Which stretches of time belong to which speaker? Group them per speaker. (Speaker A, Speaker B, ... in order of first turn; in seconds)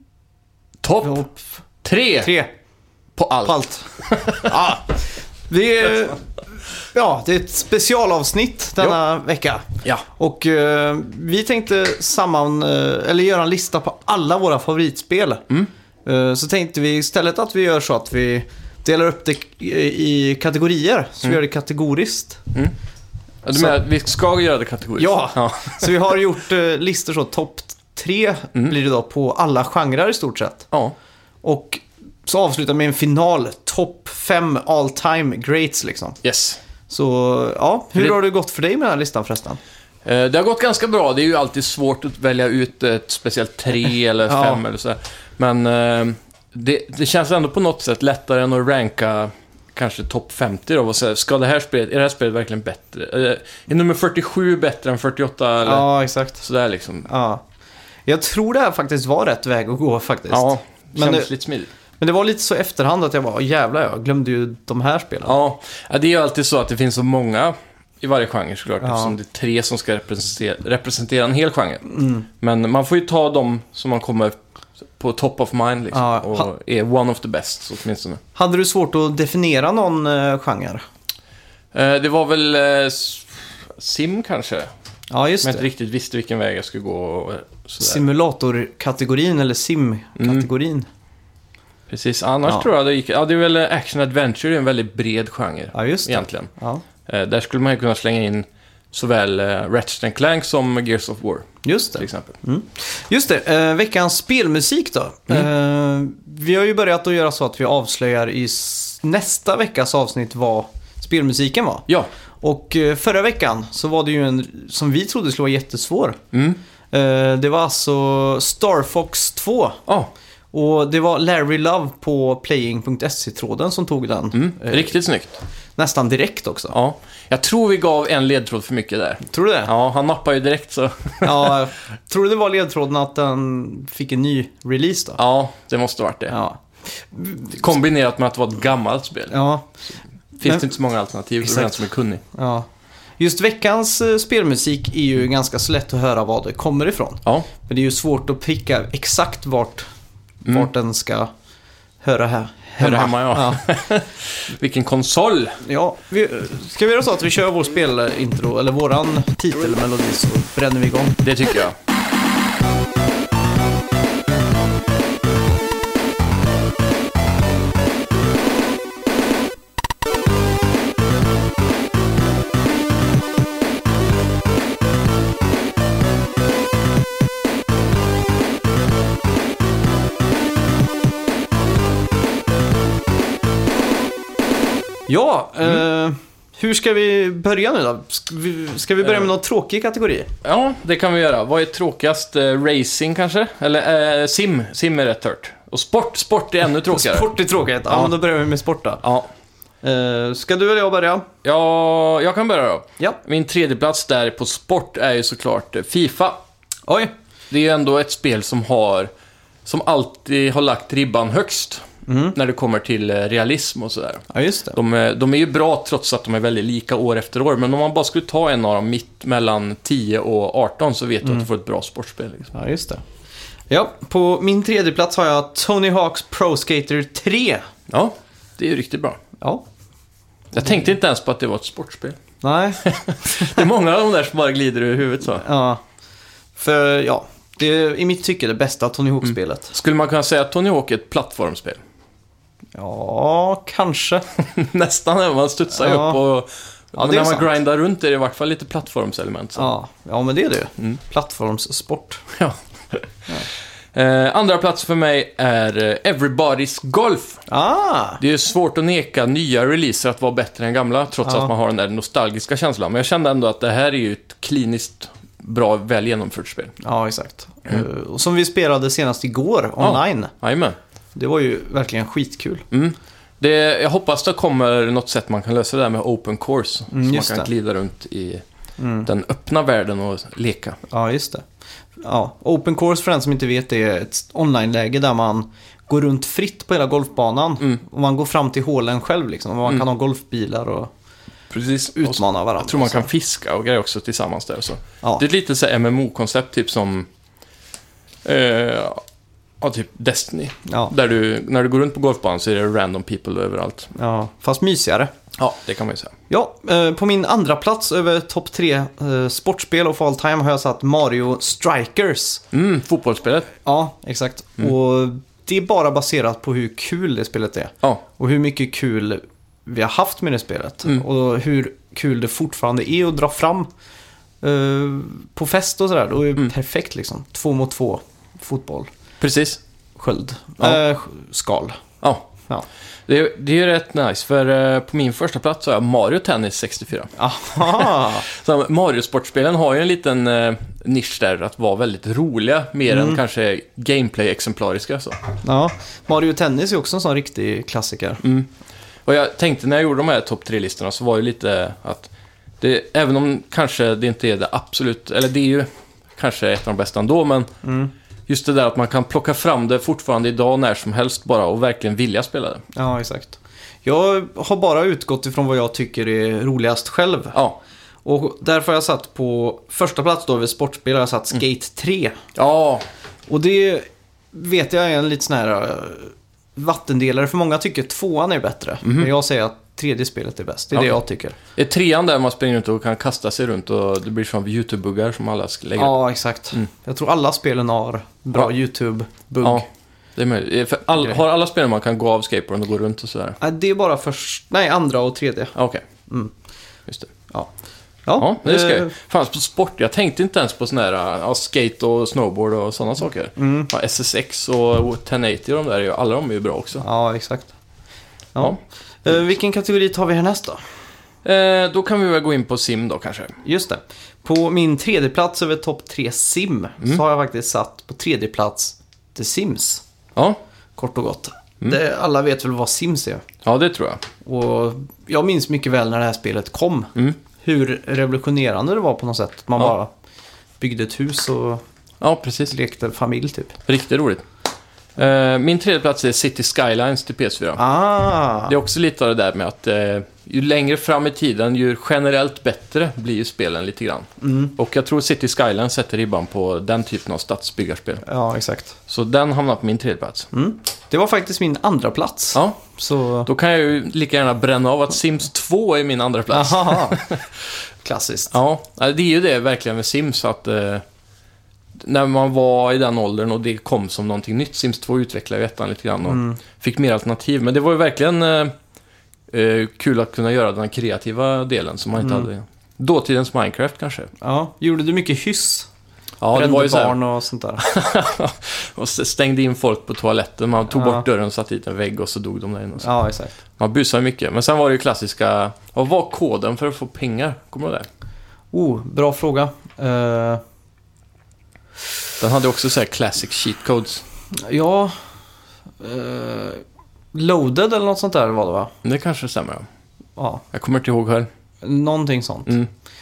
Speaker A: 0.8-1.2, 1.8-2.3, 3.2-4.5, 23.4-26.1, 36.2-36.6, 40.0-55.9, 56.4-57.1, 60.3-61.7, 65.2-71.8, 72.4-78.2, 81.7-84.7, 85.4-88.0, 90.2-90.5, 91.9-96.5, 97.1-102.3, 116.3-116.6, 119.9-120.1, 124.3-125.4, 126.7-131.6, 135.2-136.3, 137.5-139.3, 140.4-142.2, 152.8-155.6, 161.2-161.8, 189.0-189.3, 190.4-197.3, 197.9-198.1, 199.0-199.3, 201.4-206.4, 207.5-209.1, 209.7-222.5, 227.9-229.2, 230.5-232.2, 232.8-235.4, 239.3-241.8, 244.3-249.7, 252.3-257.4, 258.2-266.7, 269.8-270.8, 272.7-278.4, 279.1-280.8, 291.5-297.1, 298.2-299.0, 299.6-303.9, 305.4-306.1, 312.5-313.5, 329.2-329.6, 333.1-345.2, 348.2-348.5, 349.1-357.5, 358.3-362.6, 367.3-367.6, 372.3-372.8, 378.8-379.1, 381.6-386.0, 390.1-393.4, 395.6-395.8, 396.9-397.1, 398.2-406.8, 411.2-413.4, 423.4-424.0, 432.0-432.6, 433.7-434.2, 434.9-437.6, 438.5-448.0, 448.9-450.3, 452.3-452.6, 453.2-457.3, 458.3-460.8, 461.8-468.5, 469.3-474.1, 476.2-477.0, 477.6-482.9, 483.6-487.9, 492.2-494.0, 498.8-499.6, 500.5-501.3
Speaker B: 1.0-1.4, 2.2-2.5, 3.4-3.9, 4.4-6.3, 6.9-15.4, 16.1-22.4, 25.0-30.7, 31.4-36.2, 36.9-39.6, 44.3-44.6, 55.6-56.4, 57.1-57.4, 58.0-61.3, 62.0-65.3, 68.8-69.1, 71.9-72.2, 75.9-76.5, 78.3-80.8, 85.1-85.7, 87.8-90.9, 95.7-96.8, 101.6-111.9, 112.4-116.2, 116.9-119.8, 120.5-124.9, 125.8-126.8, 129.2-129.7, 131.2-135.2, 136.3-137.6, 139.3-139.7, 141.4-141.8, 142.3-142.7, 143.2-149.8, 150.4-151.3, 152.0-153.6, 155.6-161.2, 185.1-190.3, 196.9-199.0, 199.8-201.3, 206.9-207.1, 212.1-212.4, 214.3-214.8, 222.5-223.0, 223.7-227.7, 232.4-233.6, 235.4-235.8, 236.6-239.7, 242.8-244.2, 245.7-246.2, 246.9-247.5, 249.6-252.2, 257.5-258.2, 261.2-261.5, 266.8-270.3, 271.1-272.6, 276.9-277.5, 278.8-279.1, 280.9-281.4, 282.0-290.9, 291.9-293.1, 300.7-300.9, 303.9-305.1, 306.3-312.4, 313.6-323.7, 324.4-328.9, 330.0-331.8, 337.1-338.3, 342.9-343.2, 345.4-348.2, 357.6-357.9, 362.8-367.4, 368.1-372.2, 373.3-381.4, 385.8-389.6, 393.4-395.6, 398.1-398.9, 403.4-403.7, 406.8-407.5, 408.3-410.6, 413.4-419.8, 420.8-423.2, 424.2-429.9, 430.6-431.6, 432.5-433.6, 437.6-438.6, 444.2-444.5, 448.0-448.8, 450.3-453.3, 456.3-457.0, 457.8-458.3, 466.0-466.4, 472.0-472.3, 474.2-475.7, 476.3-477.6, 480.7-481.0, 482.8-483.4, 488.5-490.4, 494.4-494.9, 495.8-498.7, 500.2-500.4, 501.6-502.5